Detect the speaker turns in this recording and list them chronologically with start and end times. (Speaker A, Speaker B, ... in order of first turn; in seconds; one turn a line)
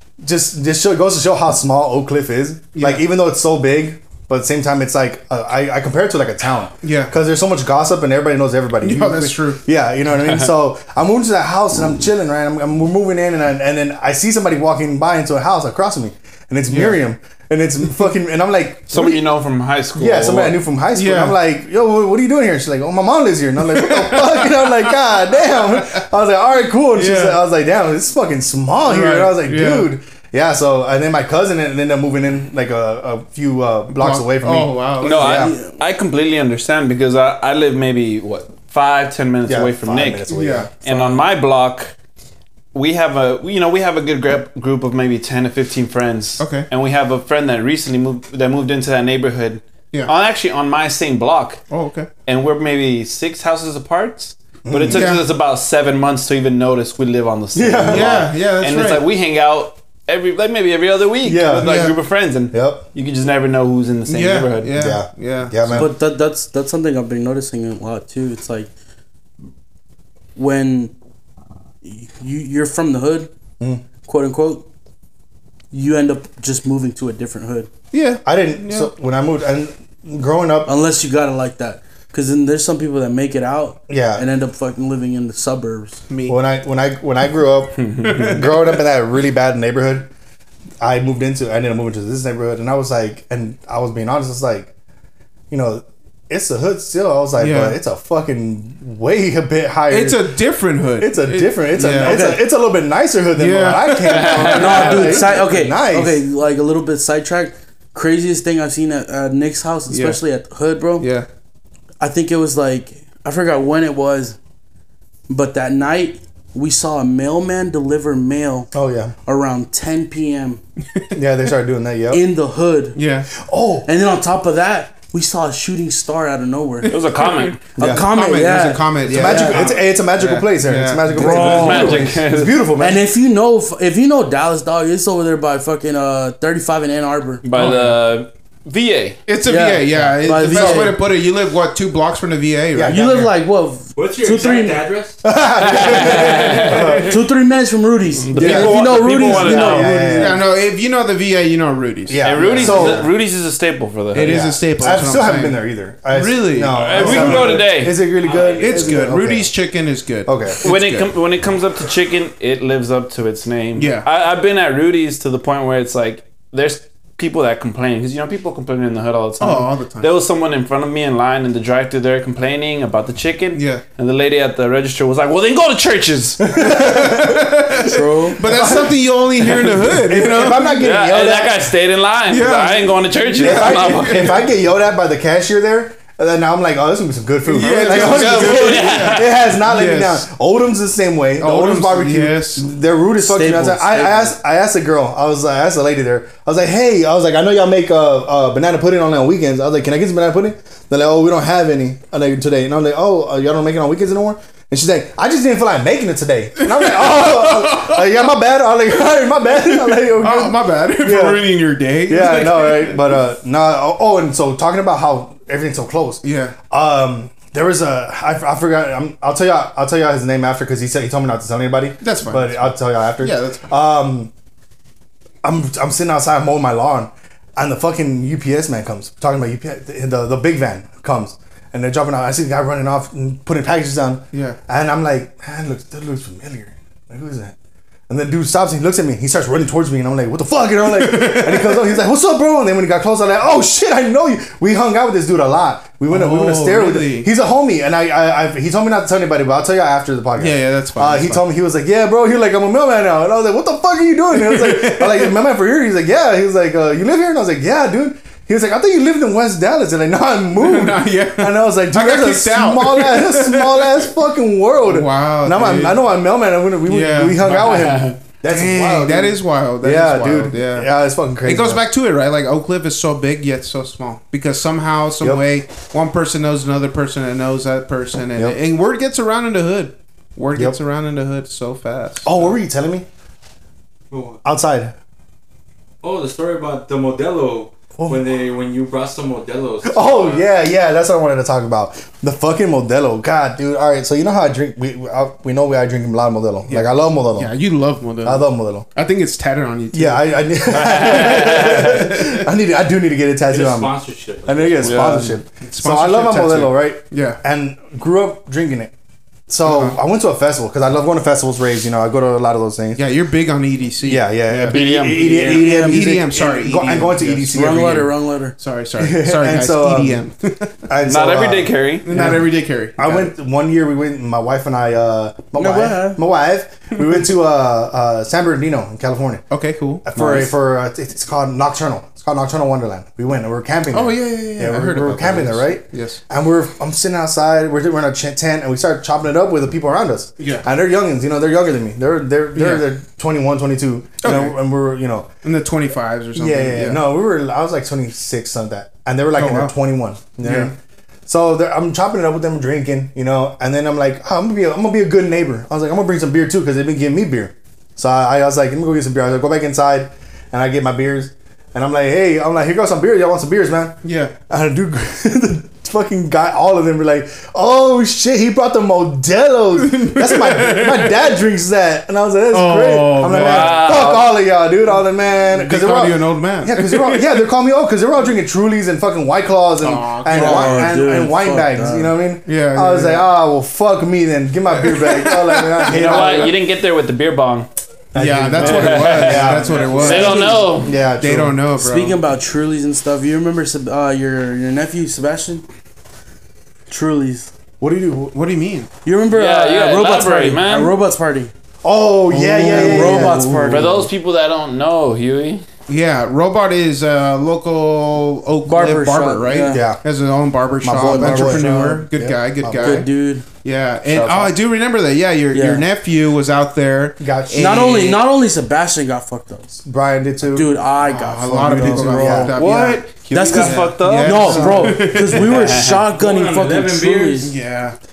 Speaker A: 0.2-19.2
Speaker B: 2.7-3.0
Speaker B: 6.8-7.1
Speaker B: 8.8-9.6
Speaker B: 16.7-17.0
Speaker C: 18.9-20.6
Speaker A: 19.9-35.6
Speaker B: 20.9-21.4
Speaker B: 23.7-24.9
Speaker B: 25.7-26.0
Speaker B: 26.9-27.4
Speaker B: 28.9-29.9
Speaker B: 33.9-35.3
Speaker C: 35.0-40.3
Speaker A: 39.5-40.7
Speaker B: 40.3-41.2
Speaker C: 40.8-41.9
Speaker C: 42.7-51.6
Speaker B: 46.4-46.7
Speaker B: 51.7-52.1
Speaker C: 52.3-64.8
Speaker A: 54.7-55.1
Speaker B: 54.9-55.2
Speaker A: 57.5-58.2
Speaker B: 57.9-59.0
Speaker A: 61.2-62.0
Speaker B: 61.6-62.0
Speaker A: 62.5-62.9
Speaker B: 64.1-65.9
Speaker A: 64.7-65.9
Speaker D: 65.7-68.7
Speaker D: 70.4-70.9
Speaker D: 71.8-73.3
Speaker A: 73.6-73.8
Speaker D: 74.0-74.7
Speaker D: 75.7-77.7
Speaker B: 77.9-78.9
Speaker A: 78.2-80.7
Speaker D: 80.7-86.0
Speaker A: 83.9-84.3
Speaker B: 86.1-86.4
Speaker A: 86.3-90.1
Speaker B: 87.9-88.8
Speaker A: 90.8-94.7
Speaker A: 95.5-100.3
Speaker B: 97.4-97.8
Speaker B: 99.9-102.3
Speaker A: 101.0-106.2
Speaker D: 101.9-102.5
Speaker B: 103.4-105.3
Speaker C: 104.0-104.7
Speaker D: 104.4-111.1
Speaker B: 109.9-110.2
Speaker B: 111.0-111.3
Speaker D: 112.0-114.4
Speaker D: 115.3-118.7
Speaker A: 118.7-119.1
Speaker D: 119.3-120.6
Speaker A: 121.1-122.2
Speaker D: 122.1-123.0
Speaker B: 123.0-123.3
Speaker A: 123.3-123.9
Speaker D: 123.9-126.9
Speaker B: 126.8-131.9
Speaker C: 126.8-127.6
Speaker A: 127.8-128.1
Speaker D: 127.8-129.7
Speaker A: 129.1-133.0
Speaker D: 131.1-132.2
Speaker C: 131.3-132.6
Speaker D: 132.8-137.4
Speaker C: 137.4-139.2
Speaker B: 137.6-138.0
Speaker B: 139.3-143.3
Speaker D: 139.4-141.0
Speaker A: 140.0-140.9
Speaker A: 142.7-143.3
Speaker D: 142.9-144.9
Speaker E: 143.9-145.2
Speaker A: 145.2-147.2
Speaker C: 145.6-146.9
Speaker B: 146.7-147.1
Speaker D: 147.0-150.4
Speaker C: 148.3-150.0
Speaker B: 148.3-148.8
Speaker A: 148.3-150.4
Speaker B: 150.1-153.1
Speaker A: 152.1-153.1
Speaker C: 152.2-154.4
Speaker B: 154.1-157.6
Speaker A: 154.2-159.5
Speaker C: 156.7-158.0
Speaker E: 158.2-159.1
Speaker B: 158.5-161.1
Speaker A: 160.3-160.6
Speaker C: 160.6-176.6
Speaker B: 163.8-164.1
Speaker B: 169.4-170.1
Speaker B: 173.5-173.8
Speaker A: 176.5-177.4
Speaker B: 176.6-180.8
Speaker D: 177.8-178.6
Speaker A: 178.4-181.7
Speaker C: 180.8-184.4
Speaker B: 182.3-184.5
Speaker A: 183.4-211.5
Speaker B: 187.4-190.2
Speaker C: 187.9-189.3
Speaker B: 191.4-192.7
Speaker D: 193.2-194.4
Speaker B: 206.6-208.0
Speaker B: 209.8-213.0
Speaker A: 212.1-224.3
Speaker B: 216.2-216.6
Speaker B: 222.0-223.7
Speaker A: 225.4-237.6
Speaker B: 234.3-234.6
Speaker A: 238.1-271.9
Speaker B: 240.9-242.0
Speaker B: 246.1-247.3
Speaker B: 250.4-251.4
Speaker B: 254.3-255.3
Speaker B: 260.6-264.1
Speaker B: 264.9-266.0
Speaker B: 266.9-270.9
Speaker C: 267.6-268.1
Speaker B: 271.4-282.6
Speaker A: 275.2-275.4
Speaker A: 282.2-283.1
Speaker E: 284.1-284.4
Speaker A: 284.4-284.9
Speaker E: 286.0-290.4
Speaker A: 288.0-288.3
Speaker A: 289.8-297.5
Speaker B: 296.7-302.4
Speaker A: 298.2-298.9
Speaker A: 299.9-308.9
Speaker C: 300.7-302.1
Speaker E: 303.5-305.1
Speaker C: 304.8-305.3
Speaker B: 305.0-307.4
Speaker A: 309.5-313.0
Speaker B: 309.6-310.0
Speaker B: 312.9-314.8
Speaker A: 314.0-318.1
Speaker C: 314.6-315.6
Speaker D: 315.1-316.2
Speaker B: 315.4-318.1
Speaker D: 317.5-318.5
Speaker B: 318.6-320.7
Speaker A: 319.0-320.3
Speaker A: 320.8-329.4
Speaker C: 321.1-322.1
Speaker B: 322.0-323.3
Speaker D: 325.6-326.2
Speaker B: 329.5-330.5
Speaker A: 330.0-345.3
Speaker B: 333.9-336.2
Speaker B: 340.4-340.7
Speaker B: 342.6-342.9
Speaker B: 344.2-344.6
Speaker B: 345.4-347.0
Speaker A: 346.4-350.8
Speaker B: 349.4-349.7
Speaker B: 350.4-350.7
Speaker A: 351.3-386.6
Speaker B: 364.0-364.3
Speaker B: 369.7-371.3
Speaker B: 372.5-373.9
Speaker C: 373.3-374.3
Speaker B: 375.5-377.4
Speaker B: 379.8-381.0
Speaker D: 380.3-382.1
Speaker B: 382.4-383.2
Speaker B: 384.7-386.3
Speaker C: 385.9-387.7
Speaker A: 388.1-391.7
Speaker B: 388.2-392.2
Speaker C: 388.6-390.9
Speaker D: 389.9-390.7
Speaker D: 391.8-395.6
Speaker D: 396.9-397.5
Speaker A: 397.8-398.4
Speaker B: 398.3-398.9
Speaker D: 399.0-401.5
Speaker C: 399.3-400.9
Speaker A: 401.8-403.9
Speaker D: 402.3-404.1
Speaker B: 402.7-403.5
Speaker C: 403.7-405.6
Speaker B: 405.9-418.2
Speaker D: 408.7-409.9
Speaker A: 409.7-410.0
Speaker A: 410.8-413.1
Speaker D: 411.1-412.0
Speaker D: 412.7-413.4
Speaker A: 414.0-414.6
Speaker D: 415.5-415.9
Speaker A: 417.2-418.0
Speaker D: 417.6-419.9
Speaker A: 419.9-420.7
Speaker D: 420.4-427.5
Speaker B: 421.0-425.8
Speaker A: 421.5-423.0
Speaker C: 423.3-426.1
Speaker E: 426.0-427.5
Speaker B: 427.4-428.0